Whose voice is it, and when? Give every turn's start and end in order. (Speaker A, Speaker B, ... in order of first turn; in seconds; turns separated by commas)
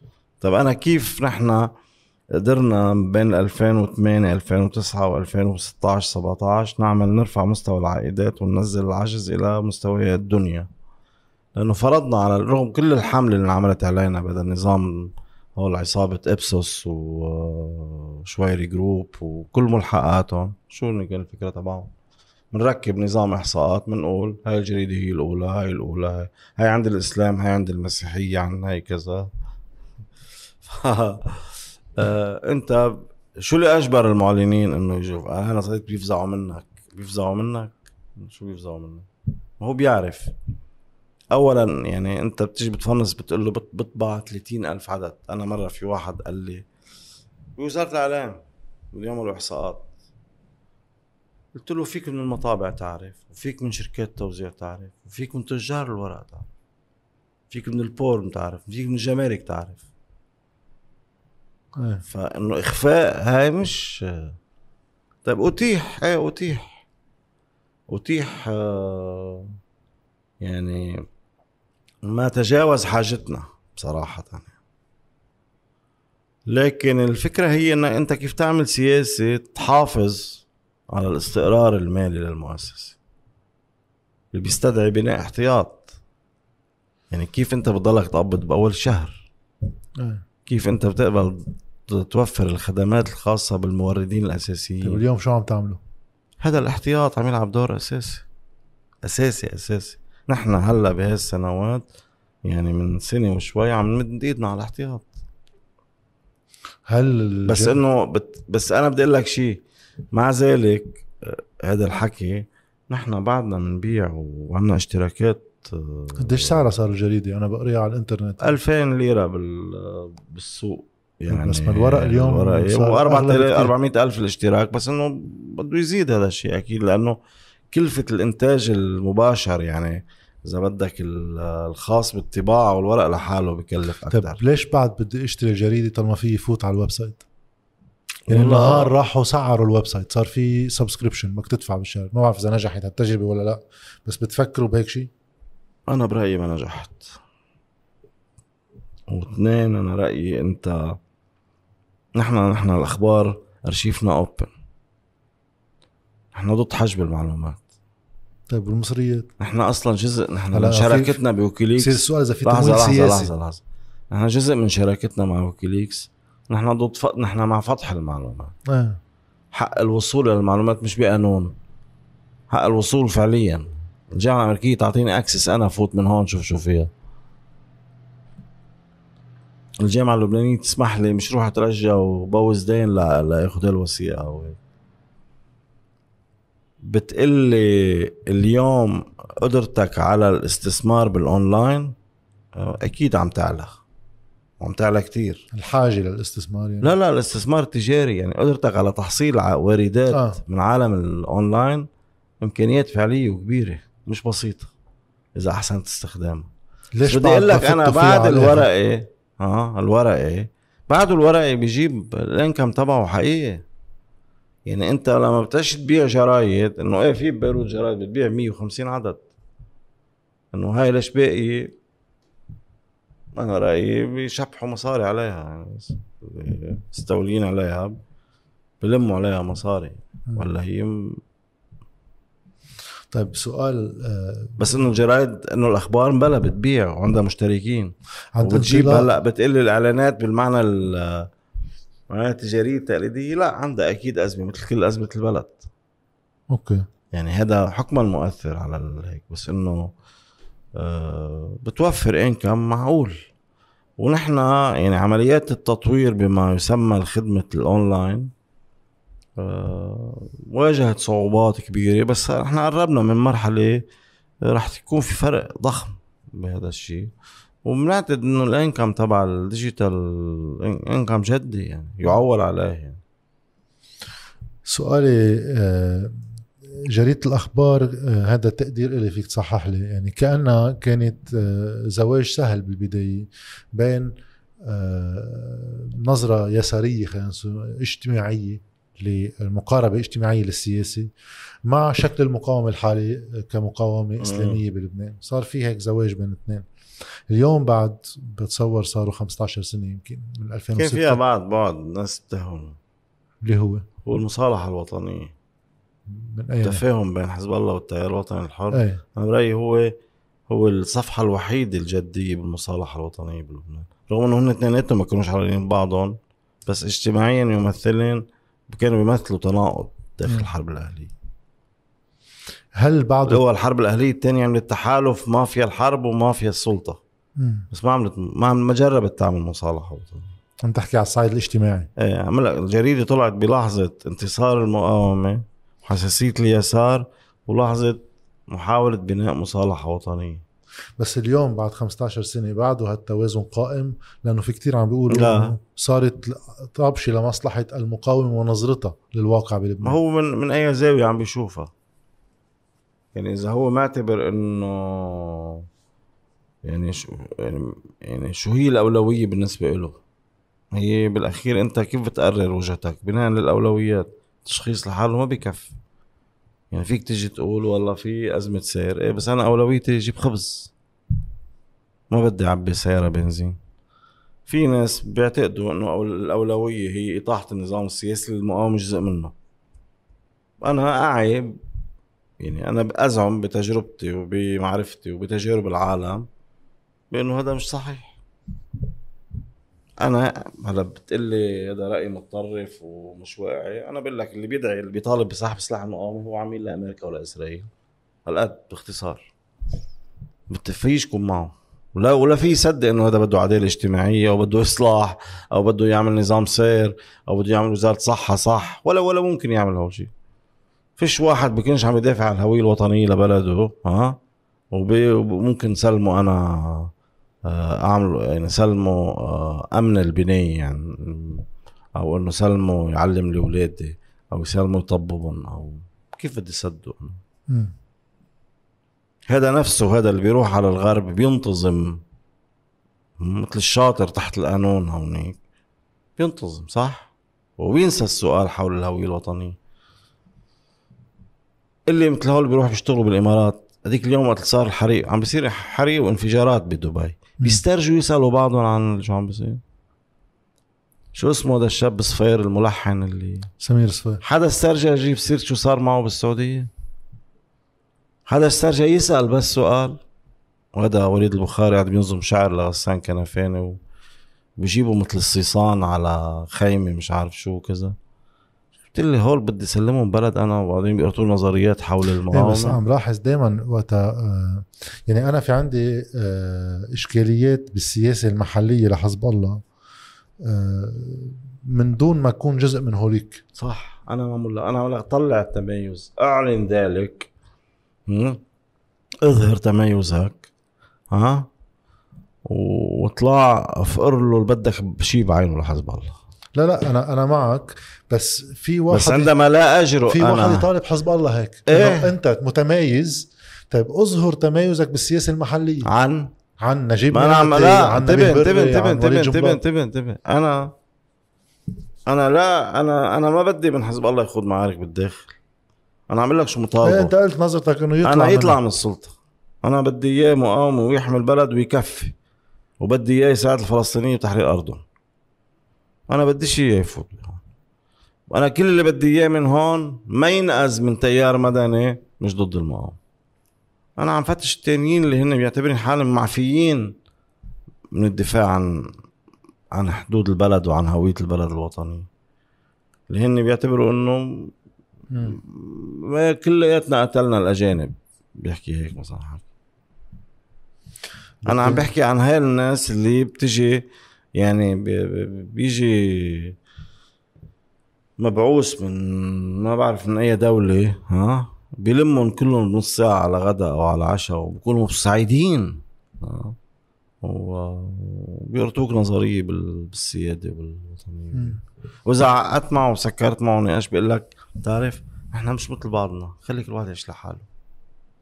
Speaker A: 0.4-1.7, Speaker A: 2.3-10.7, Speaker A: 11.6-21.9, Speaker A: 22.5-29.3, Speaker A: 30.6-39.1, Speaker A: 39.6-40.3, Speaker A: 41.3-46.7, Speaker A: 47.6-49.9, Speaker A: 51.5-56.5, Speaker A: 57.5-59.9, Speaker B: 61.8-62.0, Speaker A: 62.1-64.3, Speaker A: 65.2-66.8, Speaker A: 67.9-69.5, Speaker A: 70.4-71.0, Speaker A: 72.0-74.5, Speaker A: 76.5-83.0, Speaker A: 84.3-85.9, Speaker A: 87.1-89.3, Speaker A: 90.5-95.0, Speaker B: 94.8-95.8, Speaker A: 96.4-98.2, Speaker A: 99.0-101.8, Speaker A: 102.4-105.1, Speaker B: 106.9-107.8, Speaker A: 107.5-109.6, Speaker A: 110.1-116.6, Speaker B: 116.2-118.5, Speaker A: 118.4-127.2, Speaker B: 121.3-123.7, Speaker A: 127.7-134.4, Speaker B: 134.1-137.2, Speaker A: 138.3-138.9, Speaker B: 138.3-145.1, Speaker A: 145.9-147.2, Speaker A: 149.1-151.0, Speaker A: 152.2-154.5, Speaker A: 156.3-157.6, Speaker B: 158.5-159.3, Speaker A: 159.4-168.5, Speaker B: 160.5-161.2, Speaker B: 161.8-163.3, Speaker B: 168.7-169.0, Speaker A: 169.5-171.6, Speaker A: 172.5-176.9, Speaker A: 179.8-184.6, Speaker A: 186.8-191.9, Speaker A: 192.5-193.7, Speaker A: 194.6-195.5, Speaker B: 195.5-196.9, Speaker A: 196.8-201.9, Speaker B: 200.1-200.4, Speaker A: 202.4-204.7, Speaker A: 205.4-206.5, Speaker B: 206.9-208.6, Speaker A: 207.1-213.6, Speaker A: 214.7-219.2, Speaker A: 220.5-221.8, Speaker A: 223.3-228.0, Speaker A: 228.8-231.2, Speaker B: 233.1-234.6, Speaker A: 234.6-241.3, Speaker B: 238.4-239.1, Speaker A: 242.1-245.7, Speaker B: 246.5-246.8, Speaker A: 247.1-249.9, Speaker A: 250.8-253.1, Speaker A: 254.0-258.3, Speaker A: 259.4-263.9, Speaker A: 264.4-267.1, Speaker A: 267.6-273.0, Speaker B: 274.7-276.2, Speaker B: 276.8-291.1, Speaker B: 291.6-296.7, Speaker A: 294.2-294.6, Speaker B: 297.3-301.2, Speaker A: 300.8-302.8, Speaker B: 303.4-303.9, Speaker A: 304.0-305.3, Speaker B: 306.1-306.8, Speaker A: 306.6-310.0, Speaker B: 308.7-309.0, Speaker A: 310.5-321.1, Speaker B: 322.8-323.4, Speaker A: 323.3-327.0, Speaker B: 327.4-327.7, Speaker A: 327.7-330.3, Speaker B: 330.6-331.9, Speaker A: 332.0-340.4, Speaker B: 341.0-350.0, Speaker A: 345.1-345.5, Speaker A: 349.8-351.7, Speaker A: 353.1-355.7, Speaker A: 356.6-360.0, Speaker A: 360.7-365.7, Speaker A: 366.7-370.7, Speaker A: 372.1-373.6, Speaker A: 374.5-379.3, Speaker A: 380.6-381.6, Speaker A: 382.4-386.3, Speaker A: 387.1-388.2, Speaker A: 390.0-397.7, Speaker A: 398.3-399.3, Speaker A: 400.5-410.1, Speaker A: 411.0-414.2, Speaker A: 414.7-416.9, Speaker A: 417.4-427.2, Speaker A: 429.3-432.0, Speaker A: 433.2-435.4, Speaker A: 436.2-439.6, Speaker A: 441.9-449.6, Speaker A: 451.1-453.5, Speaker B: 453.6-454.2, Speaker A: 454.2-456.7, Speaker A: 458.3-460.0, Speaker A: 460.7-463.8, Speaker A: 464.6-468.0, Speaker A: 468.9-472.8, Speaker B: 472.3-479.6, Speaker B: 480.4-483.4, Speaker A: 483.6-487.3, Speaker A: 488.1-488.4, Speaker A: 489.2-490.5, Speaker A: 491.1-491.5, Speaker A: 492.5-496.2, Speaker B: 496.6-499.3, Speaker A: 498.9-500.7, Speaker B: 500.1-505.9, Speaker A: 501.7-502.1, Speaker A: 505.9-506.3, Speaker B: 506.6-509.6, Speaker A: 507.1-510.7, Speaker A: 512.1-515.4, Speaker A: 516.1-517.1, Speaker B: 516.8-518.6, Speaker A: 518.0-522.1, Speaker A: 522.8-524.8, Speaker A: 526.1-527.4, Speaker A: 528.3-533.0, Speaker A: 534.0-537.0, Speaker A: 537.9-538.9, Speaker A: 539.7-542.1, Speaker A: 543.1-544.5, Speaker B: 545.1-545.4, Speaker A: 545.2-549.5, Speaker A: 551.5-556.6, Speaker B: 551.5-551.9, Speaker A: 558.2-566.6, Speaker A: 567.2-577.5, Speaker B: 571.3-571.6